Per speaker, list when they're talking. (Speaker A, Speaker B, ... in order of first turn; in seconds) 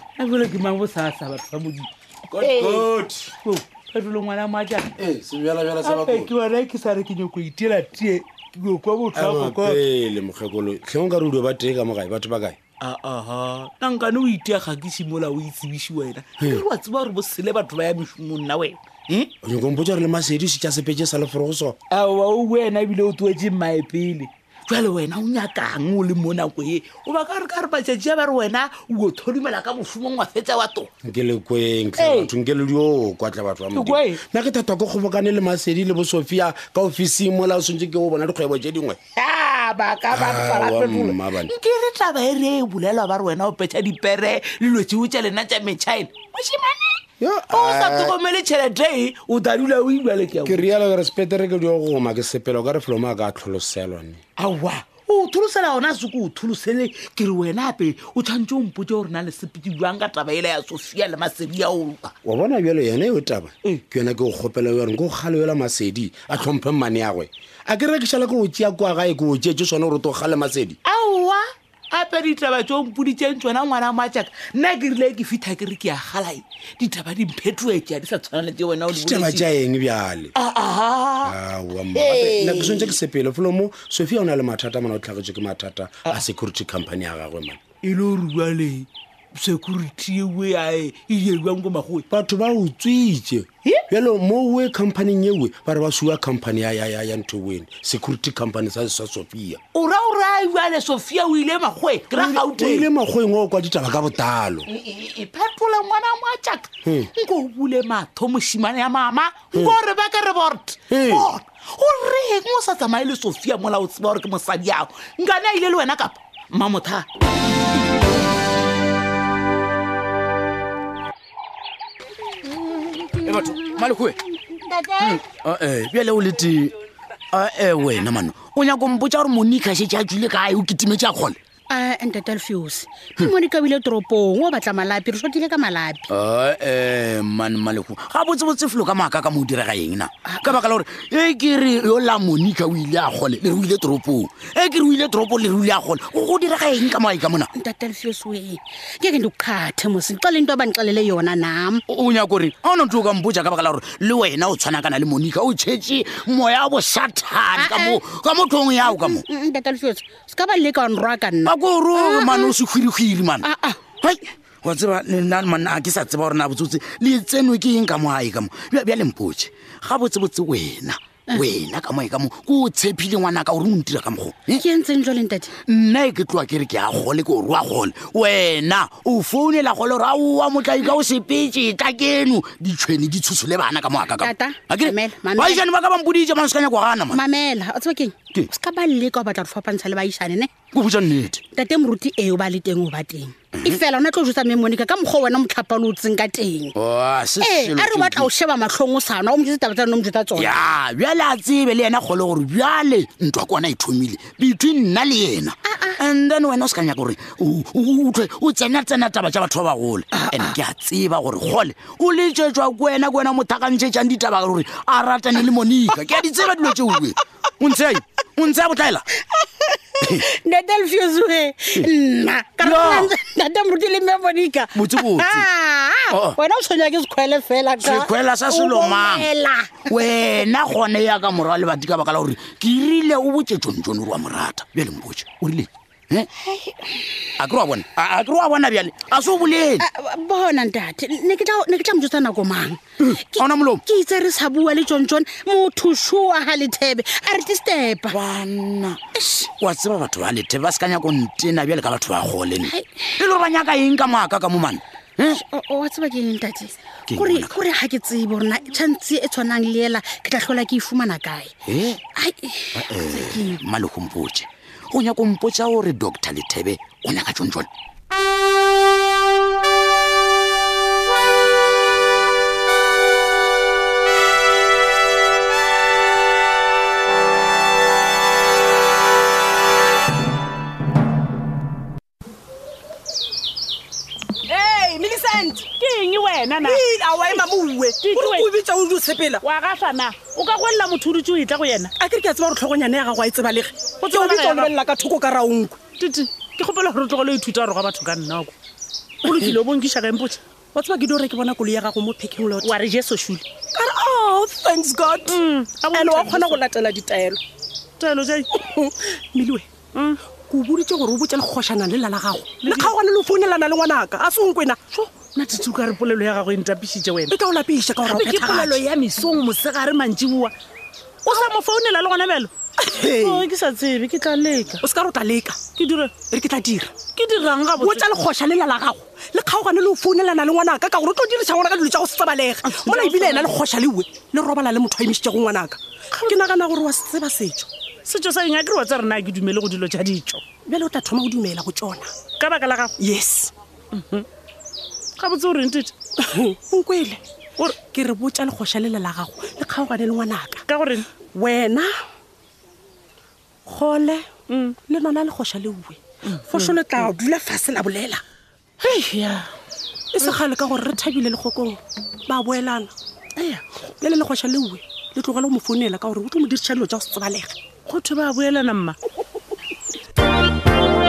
Speaker A: 0.2-4.9, 5.8-9.8, 12.8-19.3, 21.9-30.9, 32.0-32.3, 33.7-34.2, 39.2-50.6, 54.4-62.1, 70.8-79.5, 80.4-81.3, 82.0-82.6, 87.8-92.0, 99.7-102.9, 104.7-117.1
Speaker B: 2.3-3.3, 5.0-6.3, 9.1-12.6, 16.4-16.6, 19.4-21.8, 31.0-39.0, 40.1-41.5, 47.2-48.2, 50.4-54.2, 62.2-70.8, 78.9-80.3, 81.2-87.6, 92.1-99.6, 102.1-104.7, 106.8-107.1, 110.9-111.3
Speaker C: 123.1-124.2, 125.0-126.7, 127.3-131.4, 136.1-147.5, 151.9-159.2, 161.4-174.6, 175.7-187.2, 190.7-191.4, 196.8-198.3, 200.3-219.0, 222.6-223.1, 224.8-225.5, 226.1-226.4, 227.8-229.3, 229.9-236.3, 237.4-239.8, 243.0-243.8, 248.1-255.4, 257.1-257.6, 261.7-262.0, 262.8-267.7
Speaker D: 124.7-125.1, 131.7-136.1, 140.3-140.6, 147.6-151.8, 157.5-158.0, 158.8-162.6, 163.4-163.9, 174.5-175.6, 184.2-185.7, 187.1-190.5, 191.5-196.8, 197.4-200.7, 205.7-206.0, 219.4-230.2, 236.4-237.4, 239.8-248.2, 249.2-249.5, 252.6-253.1, 255.3-261.6, 262.1-263.6
Speaker E: 284.5-285.6, 286.8-289.4, 292.0-295.8, 299.3-299.5, 300.7-302.7, 303.8-305.3, 305.9-307.4, 308.6-309.7, 310.5-314.8, 317.3-318.7, 324.9-325.6, 326.3-326.9, 327.8-337.7, 340.7-342.1, 343.0-343.5, 346.2-347.2, 347.9-350.6, 351.4-351.9, 353.7-354.3, 354.9-356.0, 356.5-358.2, 358.8-359.5, 360.1-367.6
Speaker F: 285.7-287.5, 288.0-288.5, 289.4-291.9, 294.0-294.7, 296.0-298.5, 299.2-300.4, 302.6-303.4, 305.3-306.6, 308.0-308.5, 309.9-310.2, 312.6-313.0, 314.9-317.3, 318.0-320.5, 321.2-322.5, 323.1-324.8, 325.7-326.2, 327.0-328.1, 332.8-333.6, 338.1-340.4, 342.3-342.9, 343.9-344.3, 345.2-345.9, 350.7-351.1, 354.5-354.8, 356.3-357.1, 367.9-369.0